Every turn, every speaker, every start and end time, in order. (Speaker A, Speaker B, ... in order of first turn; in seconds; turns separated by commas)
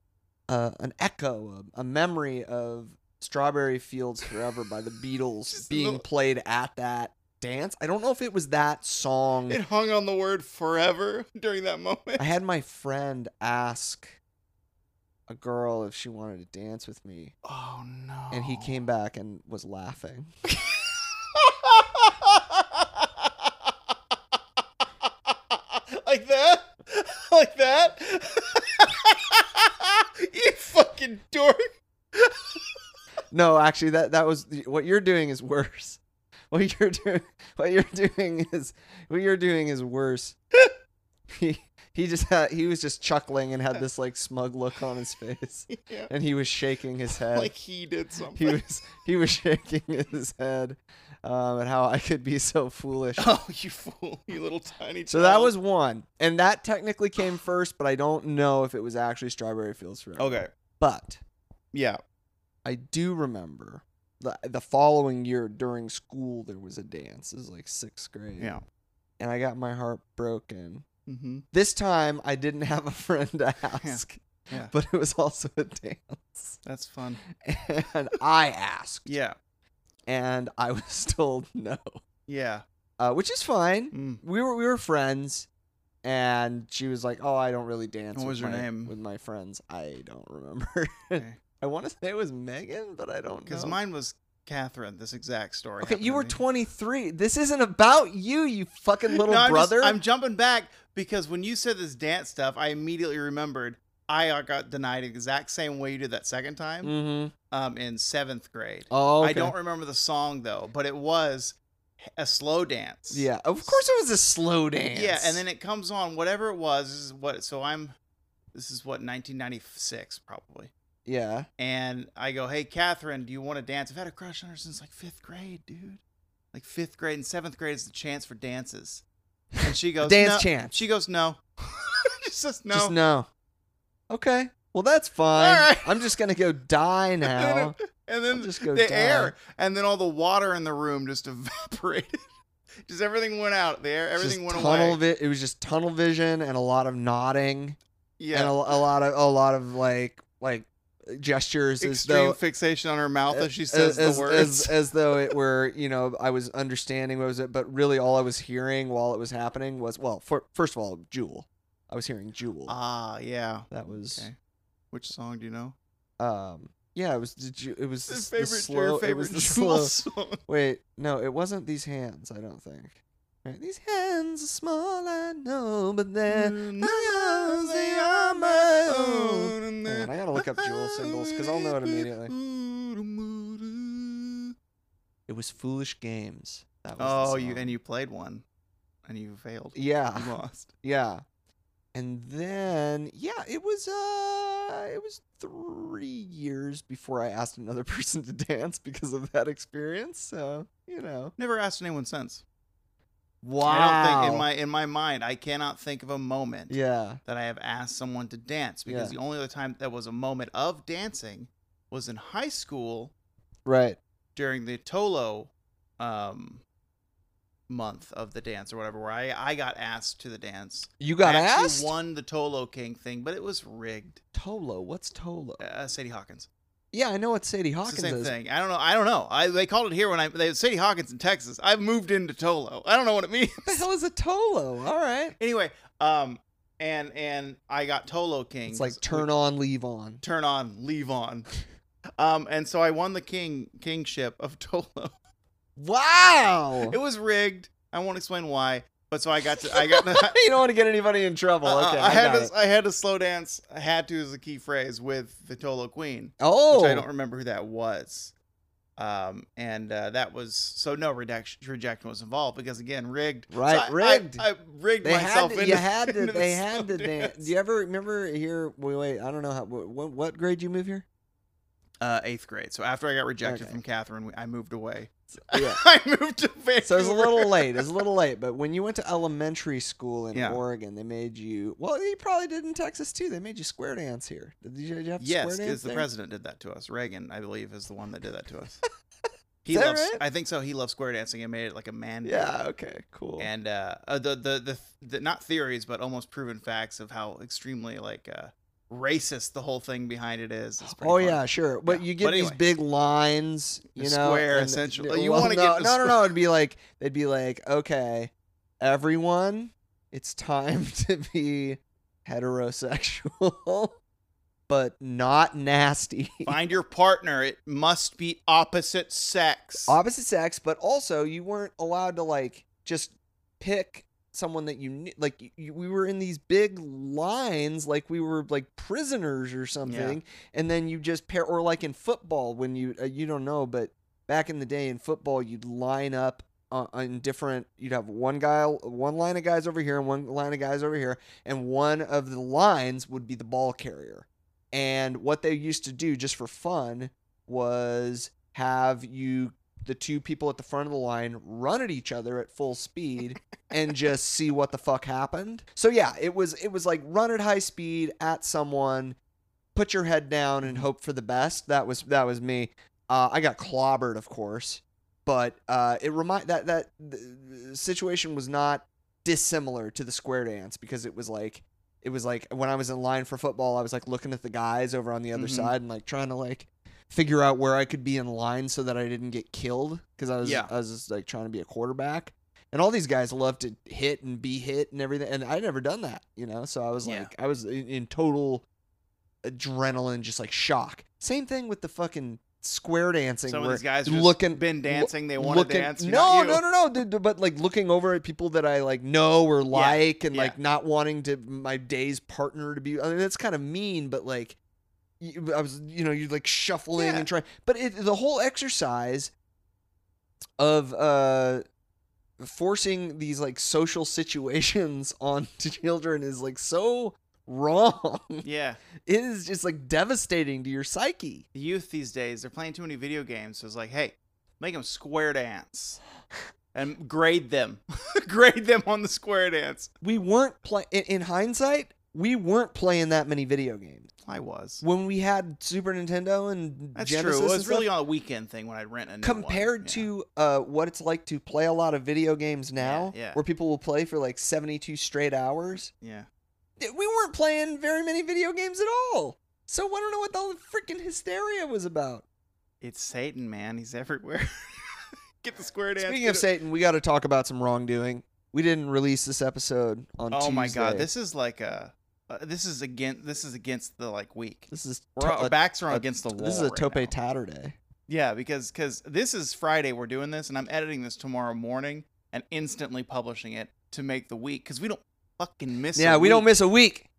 Speaker A: 0.5-9.6, Speaker B: 5.5-6.0, Speaker B: 9.5-12.3, Speaker A: 12.2-14.2, Speaker A: 15.3-17.3, Speaker B: 17.4-18.8, Speaker A: 18.3-20.3, Speaker B: 20.5-23.5, Speaker B: 25.3-32.7, Speaker A: 33.3-36.0, Speaker A: 36.5-40.4, Speaker A: 41.3-47.5, Speaker B: 45.7-46.1, Speaker B: 47.3-48.6, Speaker A: 48.4-53.3, Speaker B: 53.2-55.5, Speaker A: 55.1-61.2, Speaker B: 60.2-60.5, Speaker B: 61.7-62.0, Speaker A: 62.6-68.5, Speaker A: 69.2-70.8, Speaker B: 71.1-71.4, Speaker A: 71.5-76.6, Speaker B: 73.8-74.7, Speaker B: 76.6-77.2, Speaker A: 77.4-79.1, Speaker B: 79.1-79.4, Speaker A: 80.1-82.0, Speaker B: 82.3-82.6, Speaker A: 83.0-85.5, Speaker B: 83.9-84.2, Speaker A: 86.0-93.8, Speaker B: 88.2-88.9, Speaker B: 93.5-96.4, Speaker A: 95.8-100.0, Speaker B: 99.1-106.9, Speaker A: 106.8-107.3, Speaker B: 107.5-113.8, Speaker A: 108.9-109.5, Speaker A: 113.1-115.4, Speaker B: 114.9-117.9, Speaker B: 118.5-120.7, Speaker A: 121.0-121.5, Speaker B: 121.6-126.0, Speaker B: 126.5-129.0, Speaker B: 129.6-133.0, Speaker A: 130.0-130.8, Speaker A: 132.7-133.3, Speaker A: 134.1-137.8, Speaker B: 135.3-136.1, Speaker B: 137.2-142.2, Speaker A: 138.3-139.4, Speaker B: 142.9-145.0, Speaker A: 144.2-147.8, Speaker B: 148.2-148.6, Speaker A: 148.3-152.4, Speaker B: 151.8-154.9, Speaker A: 153.3-162.8, Speaker B: 162.7-164.3, Speaker A: 163.7-164.3, Speaker B: 164.9-165.8, Speaker A: 166.2-169.9, Speaker B: 168.1-170.4, Speaker A: 170.5-182.3, Speaker B: 176.3-184.5, Speaker A: 185.3-187.8, Speaker B: 187.0-188.4, Speaker B: 189.1-190.7, Speaker A: 189.8-191.2, Speaker A: 191.9-201.3, Speaker B: 201.4-202.4, Speaker A: 203.4-204.5, Speaker B: 203.6-206.8, Speaker A: 206.7-207.2, Speaker B: 207.2-213.1, Speaker A: 208.9-209.2, Speaker A: 213.7-214.0, Speaker B: 214.3-216.6, Speaker B: 217.7-224.2, Speaker A: 221.0-221.9, Speaker A: 224.3-225.6, Speaker B: 225.6-226.5, Speaker A: 226.9-228.3, Speaker B: 227.8-233.8, Speaker A: 233.7-235.4, Speaker B: 235.4-239.3, Speaker A: 238.7-240.2, Speaker B: 240.2-241.5, Speaker B: 242.2-245.1, Speaker A: 245.8-246.9, Speaker B: 246.9-250.4, Speaker A: 249.7-252.5, Speaker B: 251.6-258.3, Speaker A: 256.4-257.1, Speaker B: 259.0-267.5, Speaker A: 263.5-264.4, Speaker A: 265.0-271.1, Speaker B: 272.0-278.0, Speaker A: 273.4-273.8, Speaker A: 275.3-275.8, Speaker A: 276.8-286.1, Speaker B: 280.3-280.6, Speaker B: 285.2-288.8, Speaker B: 289.6-292.5, Speaker A: 289.7-290.2, Speaker A: 292.2-293.5, Speaker B: 293.4-302.6, Speaker A: 300.8-313.9, Speaker B: 303.9-306.3, Speaker A: 314.7-316.5, Speaker B: 316.4-320.0, Speaker A: 319.9-359.2, Speaker B: 329.8-330.2, Speaker A: 359.8-388.6, Speaker B: 360.6-360.9, Speaker B: 375.3-375.7, Speaker B: 380.4-380.7, Speaker B: 387.0-387.3, Speaker A: 389.4-404.6, Speaker B: 393.5-396.6, Speaker B: 399.7-400.6, Speaker A: 405.2-409.3, Speaker B: 406.9-407.3, Speaker A: 410.6-411.6, Speaker A: 412.4-418.4, Speaker B: 418.4-418.8, Speaker A: 419.1-421.4, Speaker B: 421.5-426.0, Speaker B: 426.7-429.9, Speaker A: 430.0-434.1, Speaker B: 434.2-434.8, Speaker A: 434.8-437.9, Speaker B: 436.9-440.1, Speaker A: 439.2-445.9, Speaker B: 442.8-443.4, Speaker B: 446.0-446.3, Speaker A: 446.8-452.2, Speaker B: 452.8-456.5, Speaker A: 456.0-461.1, Speaker B: 460.3-467.1, Speaker A: 464.7-467.8, Speaker B: 468.1-476.5, Speaker A: 475.9-477.1